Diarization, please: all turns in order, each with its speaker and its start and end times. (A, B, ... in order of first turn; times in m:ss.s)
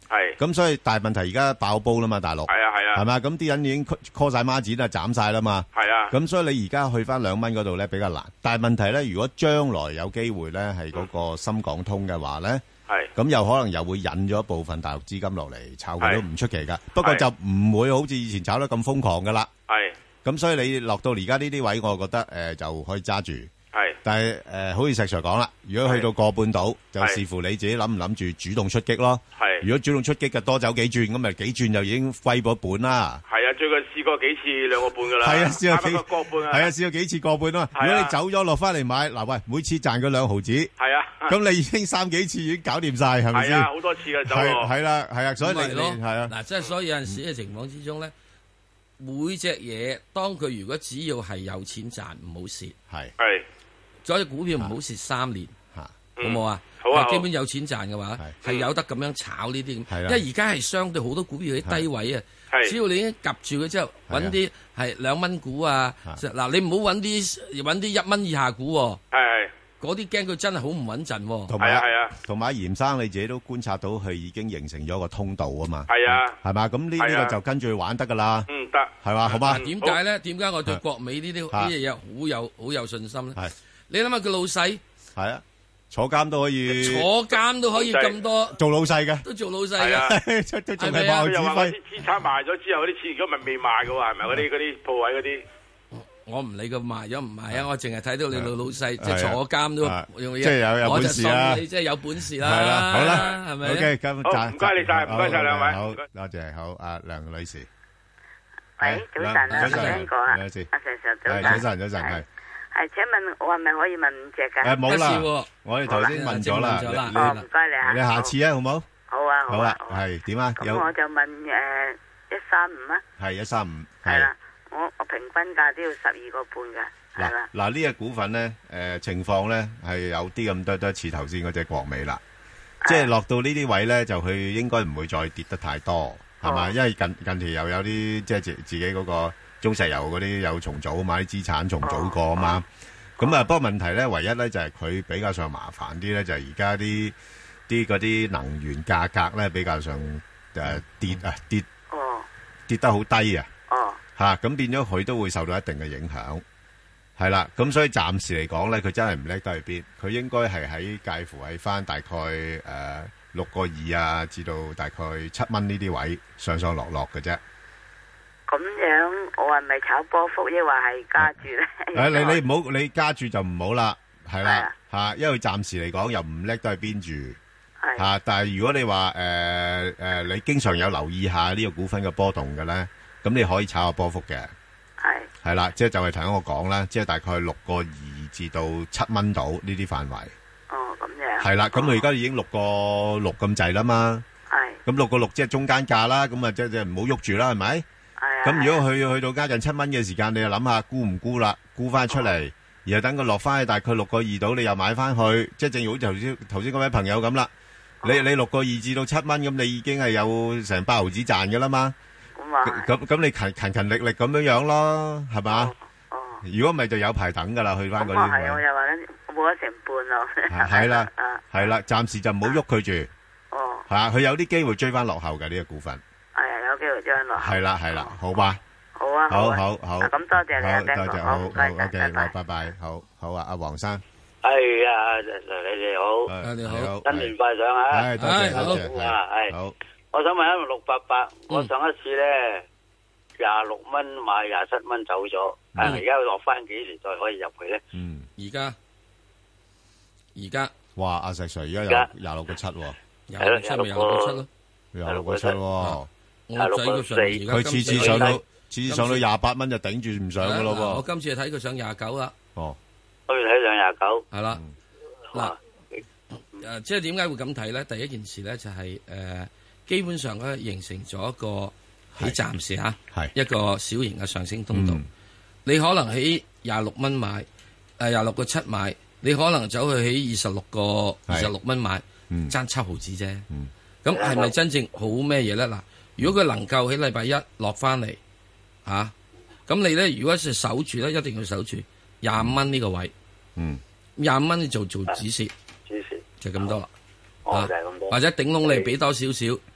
0:00.1-0:00.4 A
0:00.4-0:12.6 B
0:02.5-0:03.0 A
0:05.8-0:06.1 A
0:13.1-0:19.5 B
0:19.7-0:19.9 A
0:20.2-0:23.5 B
0:24.0-0:33.2 B
0:29.4-0:29.6 A
0:33.3-0:36.7 A
0:35.2-0:40.7 B
0:37.8-0:38.1 A
0:40.8-0:41.3 A
0:41.3-0:43.7 B
0:43.3-0:44.7 A
0:44.2-0:46.3 B
0:45.4-0:48.1 C
0:49.0-0:52.8 C
0:53.2-0:53.4 A
0:54.0-0:55.5 C
0:56.2-0:57.2 A
0:56.2-1:09.0 C
0:59.9-1:00.2 B
1:04.1-1:04.4 B
1:09.1-1:09.5 A
1:09.8-1:11.6 C
1:11.5-1:18.5 B
1:11.6-1:12.1 A
1:15.9-1:16.4 A
1:17.0-1:17.4 A
1:18.5-1:18.9 A
1:19.0-1:19.6 B
1:19.3-1:23.4 C
1:19.6-1:20.0 A
1:23.9-1:24.8 C
1:25.2-1:27.1 B
1:26.7-1:28.6 C
1:27.8-1:28.1 A
1:28.5-1:29.2 B
1:29.2-1:30.1 C
1:29.8-1:30.1 A
1:30.0-1:31.8 B
1:30.8-1:31.3 C
1:31.2-1:35.4 A
1:35.9-1:43.9 C
1:38.3-1:41.6 B
1:42.4-1:47.7 B
1:44.2-1:46.0 A
1:48.8-1:54.8 D
1:48.8-1:50.7 B
1:49.5-1:50.1 C
1:51.2-1:52.2 B
1:54.6-1:58.9 B
1:54.9-1:57.5 C
1:57.1-1:58.3 D
1:59.1-2:00.0 D
1:59.5-2:00.9 B
2:00.6-2:03.0 D
2:03.2-2:04.3 B
2:04.0-2:07.5 D
2:07.2-2:12.2 B
2:12.8-2:13.1 D
2:12.9-2:22.6 B
2:16.4-2:16.7 D
2:21.8-2:22.6 D
2:23.2-2:27.1 B
2:27.7-2:31.6 B
2:31.9-2:32.3 D
2:32.7-2:33.5 B
2:33.7-2:34.0 D
2:34.2-2:36.4 B
2:37.2-2:47.4 B
2:48.5-2:52.4 D
2:51.9-2:57.4 B
2:54.4-2:54.7 D
2:57.8-2:58.1 D
2:58.0-3:04.5 B
3:05.0-3:05.3 D
3:05.4-3:10.3 B
3:10.7-3:12.1 D
3:11.4-3:14.2 B
3:14.5-3:14.8 D
3:14.8-3:17.8 B
3:18.2-3:18.8 D
3:18.4-3:27.5 B
3:28.0-3:31.9 B
3:32.4-3:32.9 D
3:32.6-3:35.7 B
3:35.5-3:36.4 D
3:36.4-3:38.6 B
3:38.0-3:41.6 D
3:40.5-3:43.1 B
3:43.5-3:43.8 D
3:43.9-3:46.0 B
3:46.4-3:48.1 D
3:47.4-3:48.6 B
3:49.0-3:52.3 D
3:49.3-3:54.0 B
3:54.4-3:56.3 E
3:56.3-3:57.3 B
3:56.4-3:57.0 C
3:57.0-3:59.6 E
3:57.9-3:59.8 B
3:58.2-3:58.9 C
4:00.1-4:02.6 E
4:03.4-4:07.8 E
4:05.8-4:06.0 C
4:07.9-4:08.3 B
4:08.4-4:08.8 C
4:10.4-4:10.7 C
4:11.0-4:13.0 B
4:13.3-4:14.5 C
4:13.4-4:14.4 E
4:14.9-4:16.1 B
4:15.1-4:15.6 E
4:16.5-4:19.2 C
4:16.6-4:18.4 E
4:17.5-4:21.0 B
4:20.4-4:22.4 C
4:23.3-4:24.2 E
4:24.3-4:24.6 C
4:26.6-4:35.0 C
4:34.7-4:35.0 B
4:35.6-4:37.5 C
4:38.0-4:43.5 C
4:44.0-4:48.2 C
4:44.1-4:44.5 E
4:48.9-4:49.1 C
4:49.7-4:53.1 C
4:54.2-4:55.5 C
4:55.9-4:56.7 E
4:56.4-4:56.9 C
4:57.5-4:58.9 E
4:57.5-4:59.6 C